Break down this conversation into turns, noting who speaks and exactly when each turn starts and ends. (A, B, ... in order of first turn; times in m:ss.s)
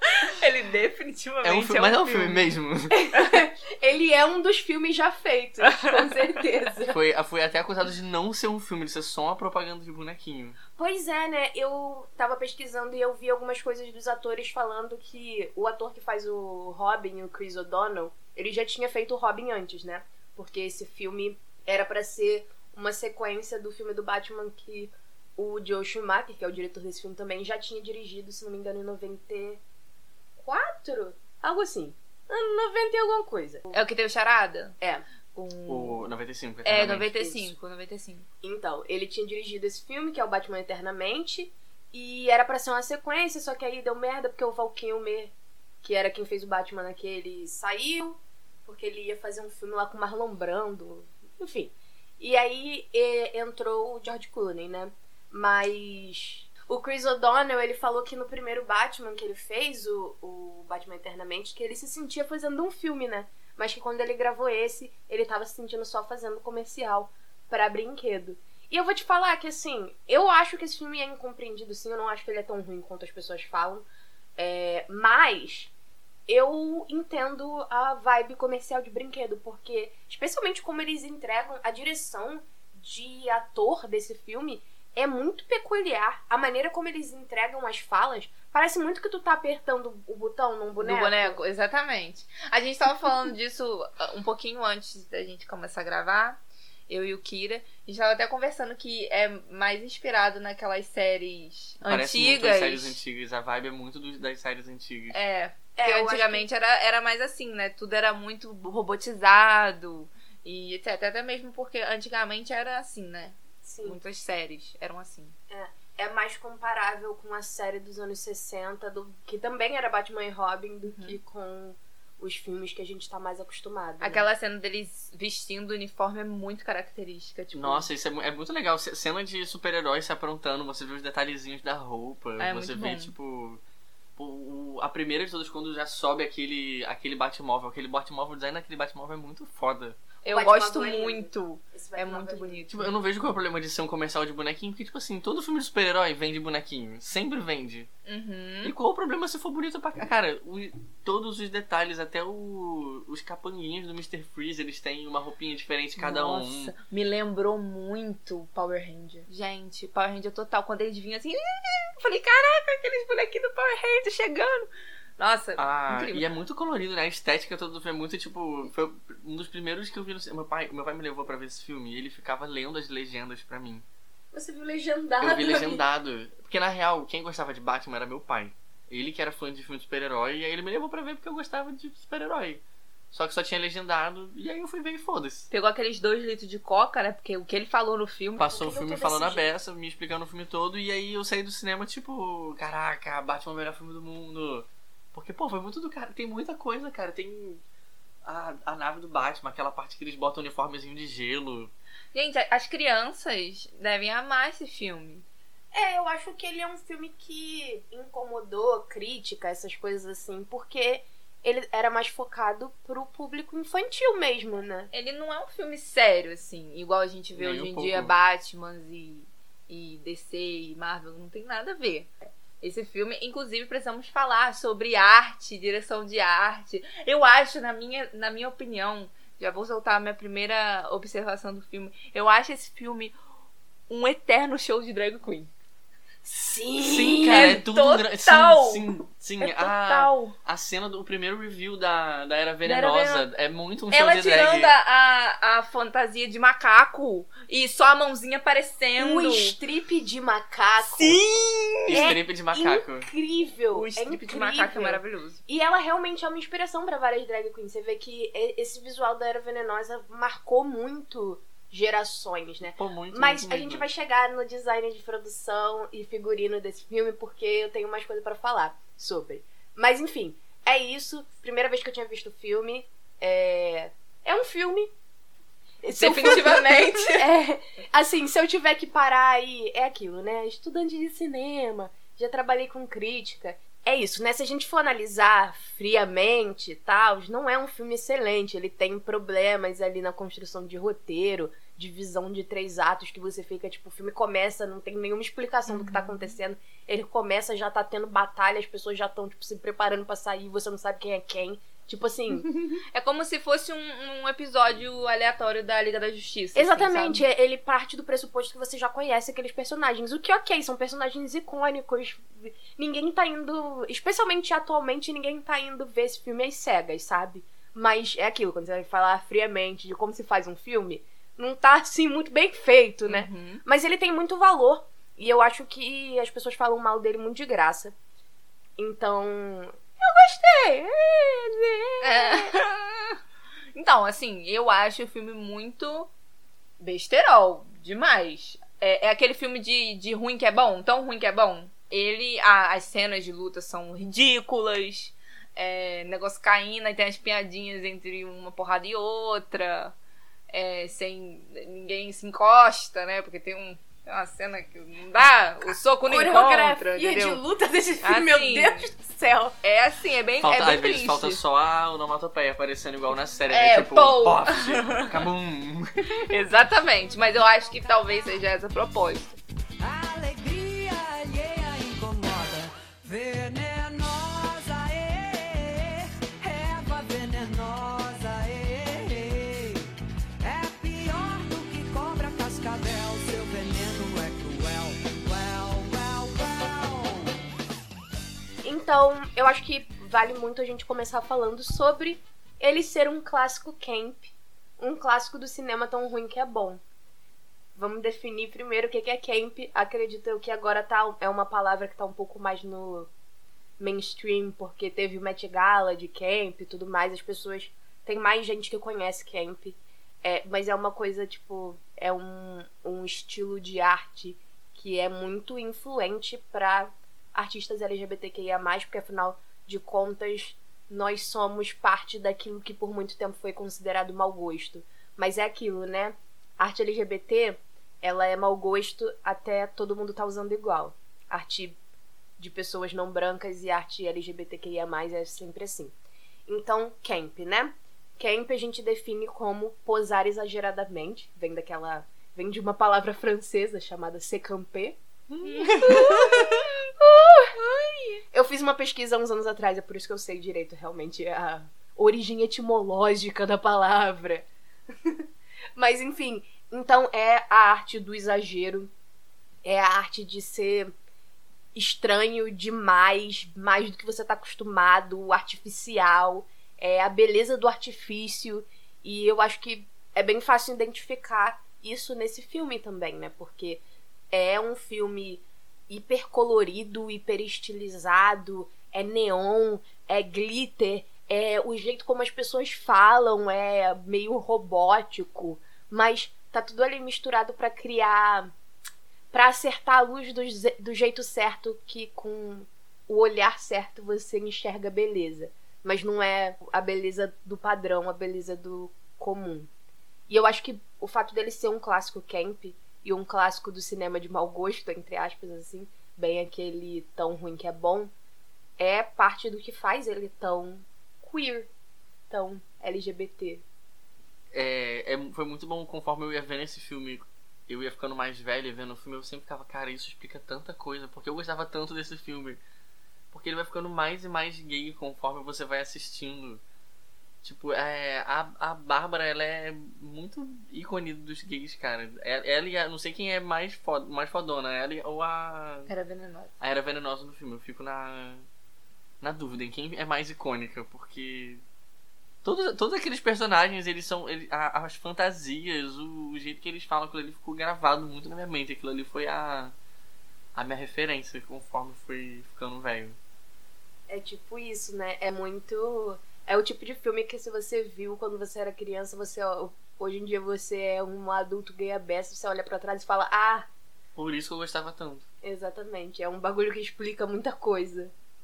0:00.2-0:02.5 A
0:01.4-0:03.0 B
0:02.9-0:07.0 C
0:05.7-0:06.1 A
0:06.9-0:10.6 B
0:10.8-0:29.6 C
0:30.4-0:33.8 C
0:33.7-0:34.8 A
0:35.3-0:36.0 A
0:35.7-0:37.1 B
0:36.6-0:38.3 A
0:37.2-0:37.5 C
0:38.4-1:13.8 C
1:14.4-1:15.7 C
1:16.3-1:31.4 C
1:30.8-1:42.9 A
1:41.8-1:45.2 B
1:45.1-1:55.4 A
1:45.8-1:46.4 C
1:53.6-1:54.0 C
1:55.5-2:04.2 C
2:00.8-2:01.2 A
2:04.0-2:07.8 A
2:07.5-2:13.6 B
2:12.4-2:13.1 A
2:14.2-2:20.0 B
2:20.2-2:22.8 A
2:20.3-2:22.7 C
2:22.7-2:27.9 B
2:28.1-2:28.7 A
2:28.6-2:36.7 B
2:36.0-2:46.3 A
2:45.6-2:53.8 B
2:54.3-2:55.8 C
2:55.2-3:05.5 B
3:05.5-3:08.5 A
3:08.4-3:17.6 B
3:08.4-3:09.5 C
3:18.2-3:21.7 B
3:22.1-3:25.2 A
3:25.7-3:34.9 C
3:34.9-3:53.2 A
3:37.3-3:38.2 B
3:53.9-3:55.5 A
3:56.2-3:57.6 C
3:56.8-4:04.7 B
3:57.2-3:58.9 A
3:59.4-4:00.3 A
4:02.6-4:03.2 A
4:03.9-4:09.6 A
4:09.0-4:11.2 C
4:10.8-4:12.1 A
4:11.8-4:13.1 B
4:11.9-4:34.9 C
4:13.7-4:15.4 A
4:22.7-4:23.9 B
4:35.8-5:02.5 C
4:36.0-4:37.3 A
4:55.7-4:56.4 A
5:02.4-5:07.2 A
5:06.6-5:27.9 C
5:23.1-5:23.6 A
5:28.8-5:32.6 C
5:32.0-5:33.2 A
5:33.8-5:36.1 A
5:36.8-5:49.9 A
5:50.5-5:57.4 A
5:56.1-5:59.5 C
5:58.0-5:58.9 A
5:59.6-6:01.4 A
6:00.4-6:06.3 B
6:03.5-6:05.2 A
6:06.2-6:09.4 A
6:09.8-6:19.9 D
6:20.4-6:27.3 D
6:28.6-6:36.8 C
6:37.8-6:43.1 C
6:43.8-7:11.8 C
7:12.4-7:15.9 C
7:16.5-7:25.0 C
7:25.3-7:26.5 B
7:25.4-7:26.7 A
7:25.6-7:27.5 C
7:27.5-7:28.2 A
7:28.3-7:34.5 C
7:35.8-7:38.9 C
7:39.6-7:40.9 C
7:41.8-7:53.8 C
7:54.3-8:08.5 C
8:09.3-8:19.7 C
8:20.3-8:28.1 C
8:28.8-8:31.7 C
8:32.3-8:33.6 C
8:34.5-8:42.6 B
8:43.3-8:46.6 B
8:47.4-8:55.9 B
8:55.9-8:56.5 A
8:56.6-8:58.4 B
8:59.2-9:01.6 B
9:02.4-9:09.7 B
9:10.5-9:13.2 B
9:14.1-9:23.7 C
9:24.1-9:25.2 B
9:25.4-9:28.1 C